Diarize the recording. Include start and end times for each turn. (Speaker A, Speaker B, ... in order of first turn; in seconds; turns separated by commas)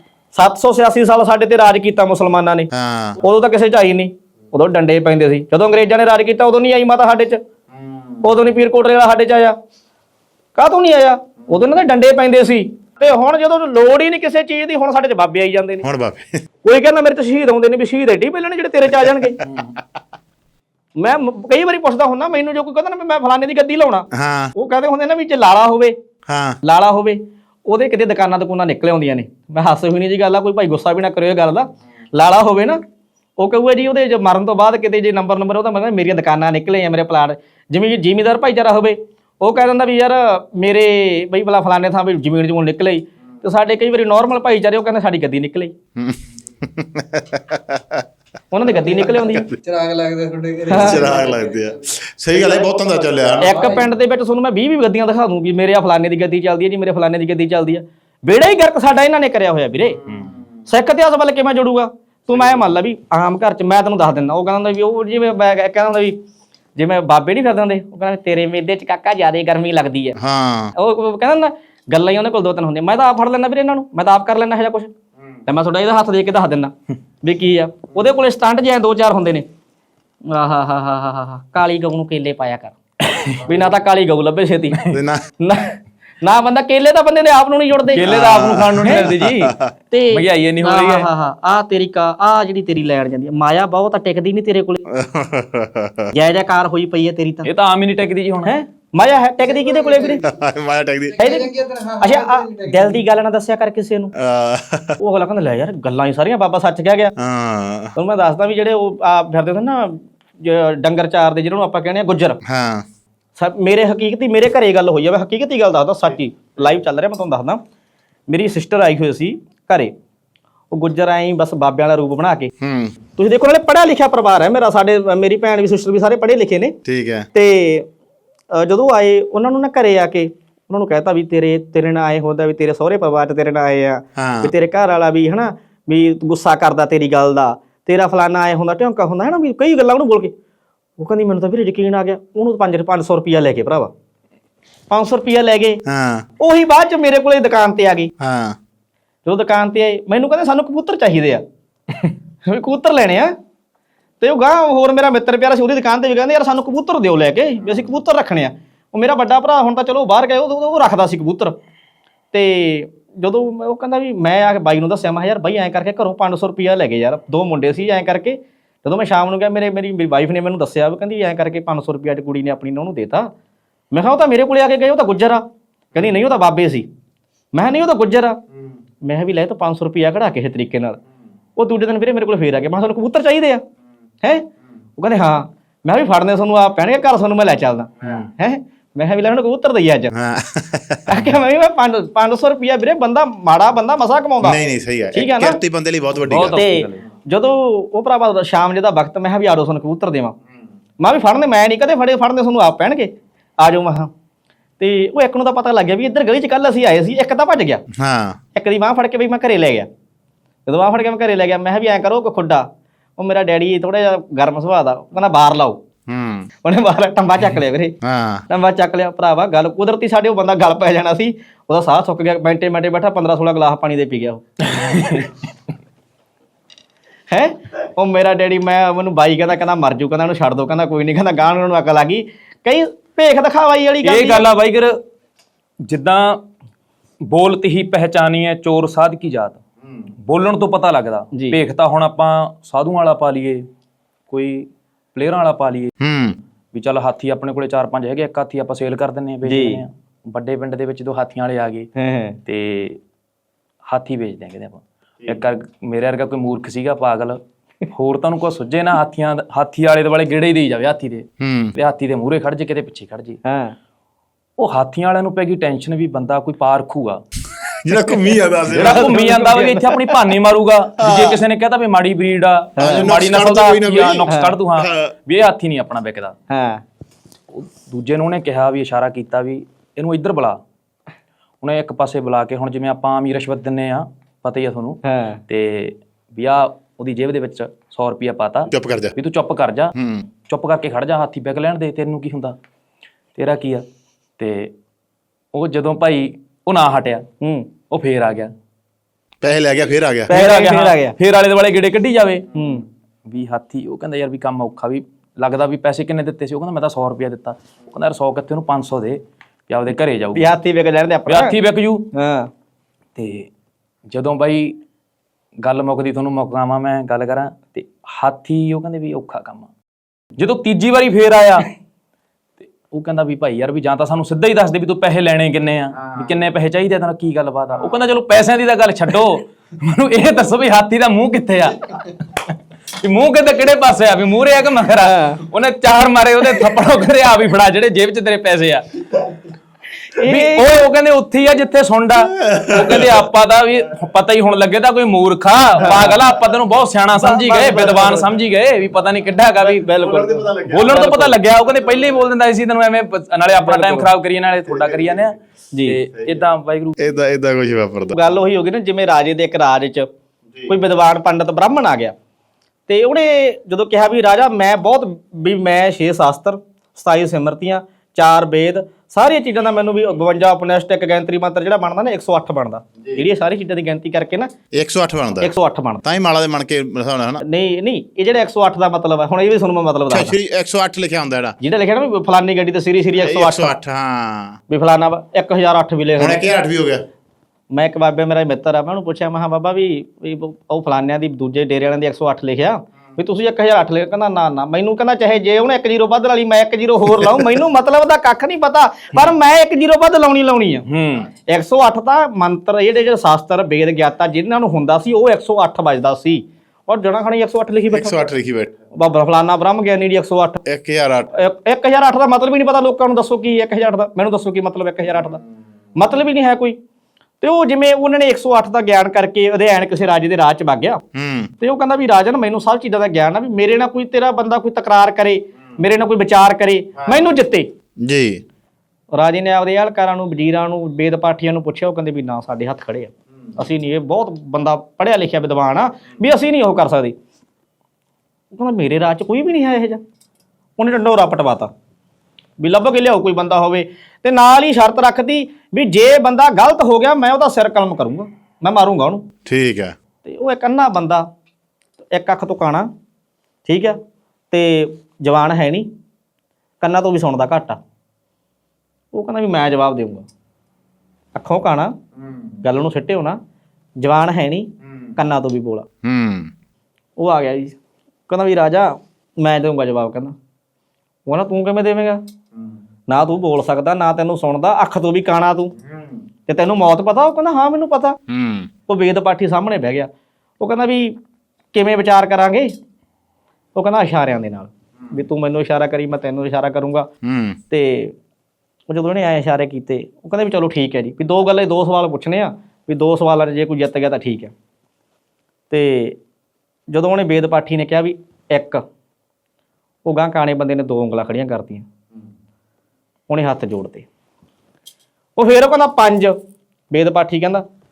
Speaker A: 0.3-7.4, Speaker B: 2.7-3.2, Speaker A: 8.2-9.6, Speaker A: 10.6-15.9, Speaker B: 15.8-16.4, Speaker A: 16.6-19.4, Speaker A: 21.0-25.9, Speaker B: 24.1-24.5, Speaker B: 26.3-26.6, Speaker A: 26.6-32.8, Speaker A: 33.4-45.7, Speaker B: 46.0-48.0, Speaker A: 48.5-49.5, Speaker B: 49.1-49.6, Speaker C: 49.6-51.6, Speaker A: 50.7-51.1, Speaker B: 50.7-53.7, Speaker A: 53.4-60.0, Speaker D: 60.1-60.3, Speaker A: 60.7-66.2, Speaker A: 66.8-70.2, Speaker B: 70.2-70.7, Speaker A: 70.8-74.9, Speaker A: 75.5-79.5, Speaker A: 80.3-82.8, Speaker D: 83.1-83.4, Speaker A: 83.3-84.8, Speaker B: 84.9-85.2, Speaker A: 85.4-88.1, Speaker D: 87.9-89.6, Speaker B: 88.1-89.7, Speaker A: 88.8-89.1, Speaker A: 89.9-94.8, Speaker D: 90.1-91.1, Speaker B: 94.9-96.1, Speaker A: 96.1-97.5, Speaker D: 97.5-98.5, Speaker A: 98.4-100.2, Speaker B: 100.2-101.4, Speaker A: 101.2-104.1, Speaker C: 101.3-102.8, Speaker B: 104.2-105.0, Speaker A: 105.0-107.1, Speaker B: 107.2-108.0, Speaker A: 108.0-112.4, Speaker B: 112.5-112.8, Speaker A: 113.4-117.6, Speaker A: 118.3-119.9, Speaker A: 120.7-122.5, Speaker B: 122.6-123.0, Speaker A: 123.2-126.8, Speaker B: 126.8-127.3, Speaker A: 127.3-127.9, Speaker A: 128.5-140.3, Speaker B: 134.2-134.5, Speaker A: 141.0-143.9, Speaker A: 144.9-145.8, Speaker B: 145.9-146.2, Speaker A: 146.4-148.1, Speaker B: 148.2-148.6, Speaker A: 149.2-151.4, Speaker A: 152.4-153.3, Speaker A: 154.2-161.6, Speaker A: 162.3-173.3, Speaker A: 173.9-176.9, Speaker A: 177.5-178.4, Speaker A: 179.0-181.0, Speaker A: 181.6-183.6, Speaker A: 185.0-190.1, Speaker B: 190.1-191.3, Speaker A: 191.1-194.6, Speaker B: 194.4-196.6, Speaker A: 195.1-195.6, Speaker D: 196.2-197.0, Speaker A: 196.5-200.4, Speaker A: 201.0-204.1, Speaker A: 204.8-207.8, Speaker B: 207.9-208.4, Speaker A: 208.6-209.9, Speaker A: 210.7-212.7, Speaker A: 213.2-215.8, Speaker B: 216.1-216.5, Speaker A: 216.6-217.9, Speaker B: 218.0-218.4, Speaker A: 218.5-224.4, Speaker D: 224.7-225.3, Speaker A: 227.3-234.4, Speaker D: 234.0-235.0, Speaker D: 235.8-236.4, Speaker D: 237.2-243.7, Speaker A: 241.3-241.6, Speaker D: 244.3-245.9, Speaker B: 246.0-246.4, Speaker D: 246.7-251.9, Speaker A: 249.4-249.8, Speaker A: 252.0-252.4, Speaker D: 252.5-253.0, Speaker D: 253.9-263.4, Speaker B: 261.4-261.7, Speaker A: 263.4-263.8, Speaker D: 264.6-267.2, Speaker B: 267.6-269.2, Speaker D: 268.7-276.4, Speaker A: 268.7-270.2, Speaker B: 271.0-271.4, Speaker A: 272.8-273.1, Speaker B: 272.8-275.1, Speaker A: 274.3-274.6, Speaker A: 276.5-276.8, Speaker D: 277.5-280.6, Speaker D: 281.6-289.9, Speaker A: 285.0-285.4, Speaker B: 288.7-289.1, Speaker B: 289.9-290.3, Speaker D: 290.5-292.6, Speaker D: 293.4-293.9, Speaker D: 294.4-294.7, Speaker D: 295.5-297.3, Speaker A: 297.4-297.7, Speaker D: 297.9-298.5, Speaker B: 299.4-300.4, Speaker A: 300.3-301.2, Speaker D: 300.3-302.7, Speaker A: 302.5-302.9, Speaker D: 303.3-310.5, Speaker A: 310.3-311.6, Speaker D: 311.3-312.1, Speaker A: 312.1-312.5, Speaker D: 313.2-313.5, Speaker D: 314.1-314.8, Speaker D: 315.6-319.7, Speaker D: 320.4-321.7, Speaker D: 322.6-339.4, Speaker A: 335.0-335.4, Speaker A: 340.1-340.7, Speaker D: 340.2-357.1, Speaker B: 342.2-343.1, Speaker A: 347.2-348.3, Speaker A: 349.6-351.4, Speaker B: 350.1-350.8, Speaker A: 353.6-354.1, Speaker A: 355.7-356.0, Speaker B: 357.0-358.3, Speaker A: 358.1-360.1, Speaker A: 360.7-362.1, Speaker A: 362.9-374.5, Speaker B: 374.7-377.4, Speaker A: 375.4-376.0, Speaker A: 377.4-380.4, Speaker B: 380.1-381.6, Speaker A: 381.6-383.7, Speaker B: 383.1-384.6, Speaker A: 384.7-386.4, Speaker B: 386.2-387.0, Speaker A: 387.7-400.9, Speaker D: 400.9-401.3, Speaker A: 401.4-408.3, Speaker B: 407.9-408.7, Speaker A: 408.9-410.6, Speaker B: 410.6-411.3, Speaker A: 411.3-415.4, Speaker A: 416.0-416.8, Speaker A: 417.4-421.0, Speaker B: 421.1-421.5, Speaker A: 421.6-427.7, Speaker B: 428.0-428.4, Speaker A: 429.1-437.1, Speaker A: 438.5-440.0, Speaker A: 440.8-441.7, Speaker A: 442.6-449.3, Speaker B: 449.5-449.9, Speaker A: 450.2-451.3, Speaker A: 452.1-452.9, Speaker A: 453.6-454.0, Speaker A: 454.5-455.9, Speaker A: 456.8-457.8, Speaker A: 459.1-460.3, Speaker A: 461.4-461.9, Speaker A: 462.6-463.4, Speaker A: 464.0-465.9, Speaker B: 466.0-466.5, Speaker A: 467.2-467.8, Speaker A: 468.3-470.4, Speaker A: 471.3-472.2, Speaker A: 473.1-475.7, Speaker A: 476.5-478.2, Speaker B: 478.3-478.7, Speaker A: 478.9-480.1, Speaker A: 480.6-481.2, Speaker A: 481.7-482.7, Speaker A: 483.8-487.1, Speaker B: 487.2-487.6, Speaker A: 487.7-488.1, Speaker A: 488.9-494.5, Speaker A: 495.7-496.2, Speaker A: 496.9-498.8, Speaker A: 500.1-501.9, Speaker A: 503.3-504.1, Speaker A: 505.4-506.4, Speaker A: 506.9-507.6